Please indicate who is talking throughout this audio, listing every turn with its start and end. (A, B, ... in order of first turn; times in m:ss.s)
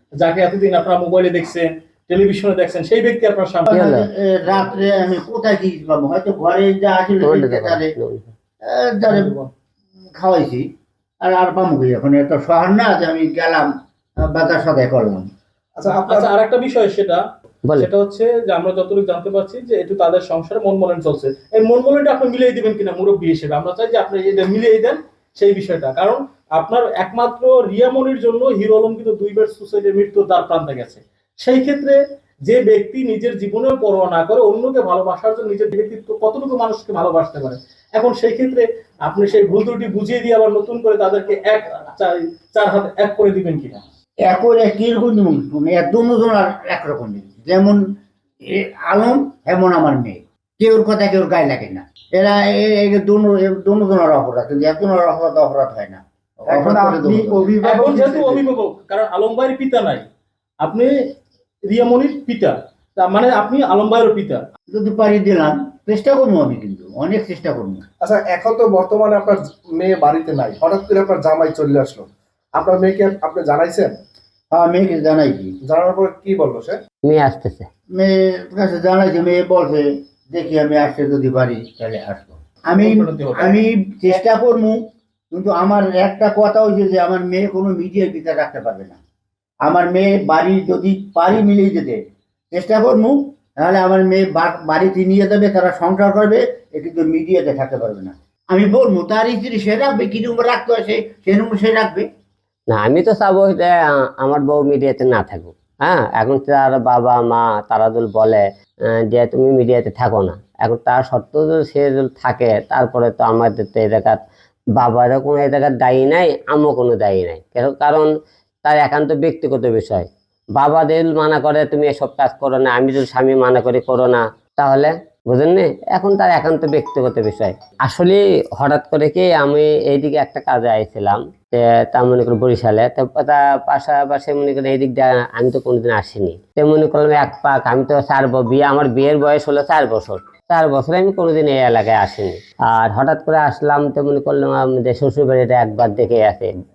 0:00.2-0:03.8 A
0:03.7-0:07.9 B
0:03.7-0:04.1 C
0:07.2-0:08.3 C
0:08.7-0:09.3 B
0:09.1-0:09.5 A
0:10.2-0:10.7 B
0:11.2-0:13.7 B
0:14.2-0:15.3 B
0:15.8-0:16.3 D
0:15.9-0:17.2 A
0:17.8-0:43.8 A
0:44.3-0:47.8 B
0:48.5-0:57.6 B
0:56.5-0:56.8 D
0:57.6-0:58.4 D
0:57.6-1:00.1 A
1:00.6-1:00.9 A
1:01.7-1:04.4 A
1:04.7-1:07.8 B
1:08.0-1:14.0 D
1:14.5-1:15.5 B
1:15.7-1:16.8 D
1:17.0-1:17.7 C
1:18.0-1:24.8 B
1:22.8-1:23.6 A
1:25.3-1:29.0 B
1:29.6-1:32.0 B
1:32.5-1:42.1 B
1:42.7-1:48.4 C
1:49.1-1:54.2 C
1:54.8-1:58.1 C
1:58.6-2:26.5 C